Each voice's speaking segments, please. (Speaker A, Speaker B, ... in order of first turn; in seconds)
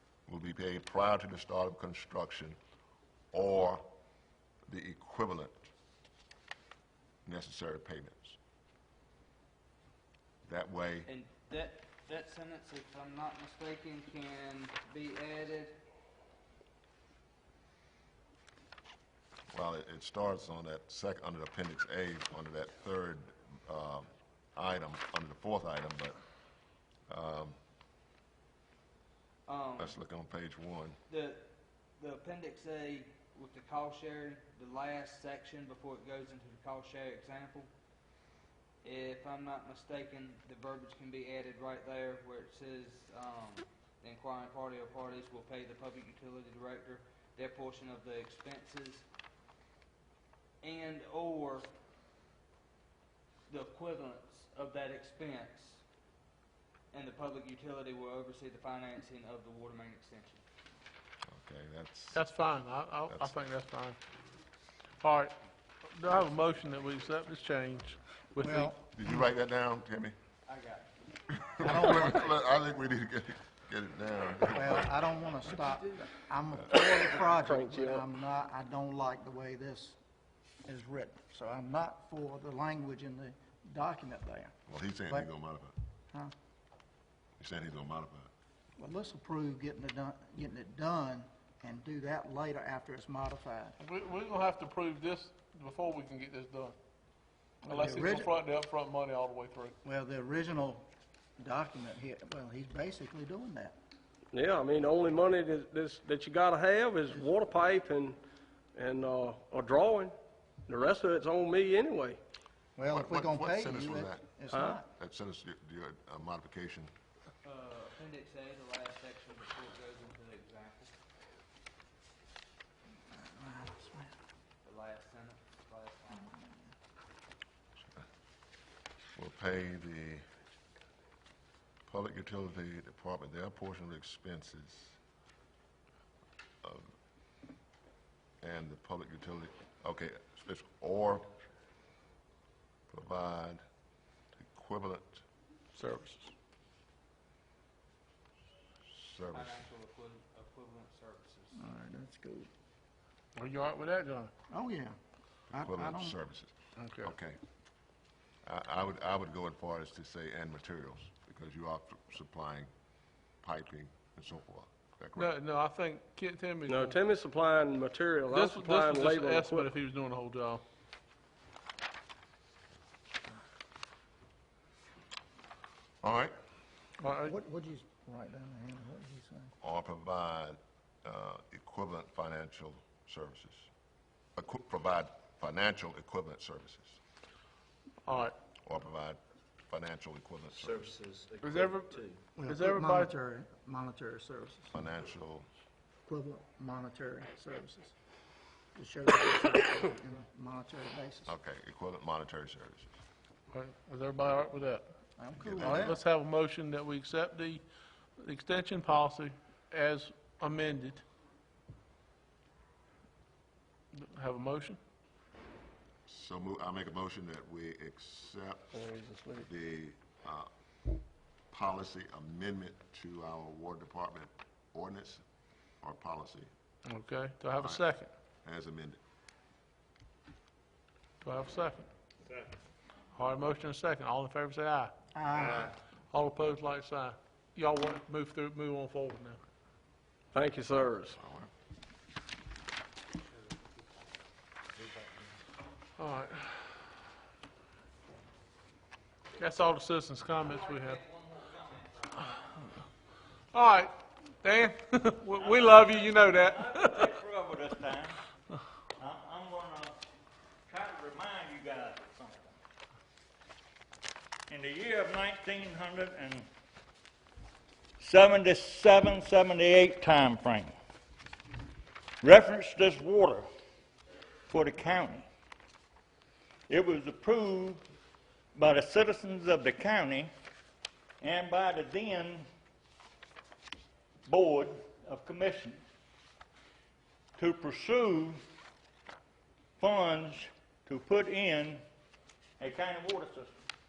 Speaker A: 0.3-2.6, 3.3-3.8, 4.7-5.7, 7.2-8.4, 10.4-11.1, 19.5-26.2, 27.1-27.6, 29.8-31.0, 61.3-62.2, 63.1-63.4, 68.9-70.2, 71.3-75.0, 84.7-85.7, 87.4-88.3, 112.9-116.9, 129.2-130.2, 131.9-135.0, 136.6-136.9, 138.4-141.3, 142.9-143.6, 144.4-145.2, 148.9-149.6, 155.5-157.4, 158.4-162.7, 163.4-165.3, 176.0-176.3, 179.6-183.7, 184.4-187.0, 188.7-190.9, 194.7-195.5, 201.3-203.0, 205.4-205.9, 216.1-218.7, 219.4-220.5, 221.5-225.2, 225.8-226.5, 227.6-227.9, 228.4-229.0, 241.2-241.5
Speaker B: 11.1-15.8, 29.5-30.0, 31.1-31.4, 32.0-37.7, 38.8-49.0, 50.6-51.7, 53.5-55.8, 56.9-60.4, 70.5-70.8, 117.4-120.9, 124.6-126.4, 149.3-151.6
Speaker C: 62.1-64.0, 65.0-65.3, 65.9-68.7, 93.8-96.8, 97.7-99.7, 145.7-146.3, 153.4-154.3, 156.8-157.1, 165.2-167.0, 168.3-170.6, 177.0-177.3, 188.1-188.3, 191.4-193.1, 203.5-204.9, 205.6-207.7, 208.2-211.0, 213.9-214.8, 226.9-228.1, 231.2-231.9, 233.2-234.9, 236.1-239.4, 246.0-246.8, 249.4-251.0, 253.5-257.2
Speaker D: 68.4-68.8, 71.6-72.2, 74.5-80.0, 80.7-84.5, 88.8-93.8, 97.7-98.3, 99.8-100.9, 101.4-103.8, 112.8-114.9, 123.1-124.1, 126.3-126.6, 151.6-152.5, 154.5-155.0, 155.5-156.2, 177.2-179.5, 192.4-194.7, 196.1-197.9, 198.8-201.3, 205.2-206.0, 235.2-235.8
Speaker E: 77.4-78.1, 104.3-108.2, 108.7-112.2, 114.5-114.8, 166.7-169.7, 218.7-219.5, 240.3-241.2
Speaker F: 190.6-192.2, 244.8-245.2, 250.4-252.4, 255.3-258.2, 259.0-260.0, 260.7-262.6, 264.5-266.5, 268.0-270.8, 272.2-273.5, 274.5-275.3, 276.7-277.8, 278.6-280.3, 281.2-282.5, 284.2-285.8, 287.4-288.4, 289.8-291.8, 292.6-293.6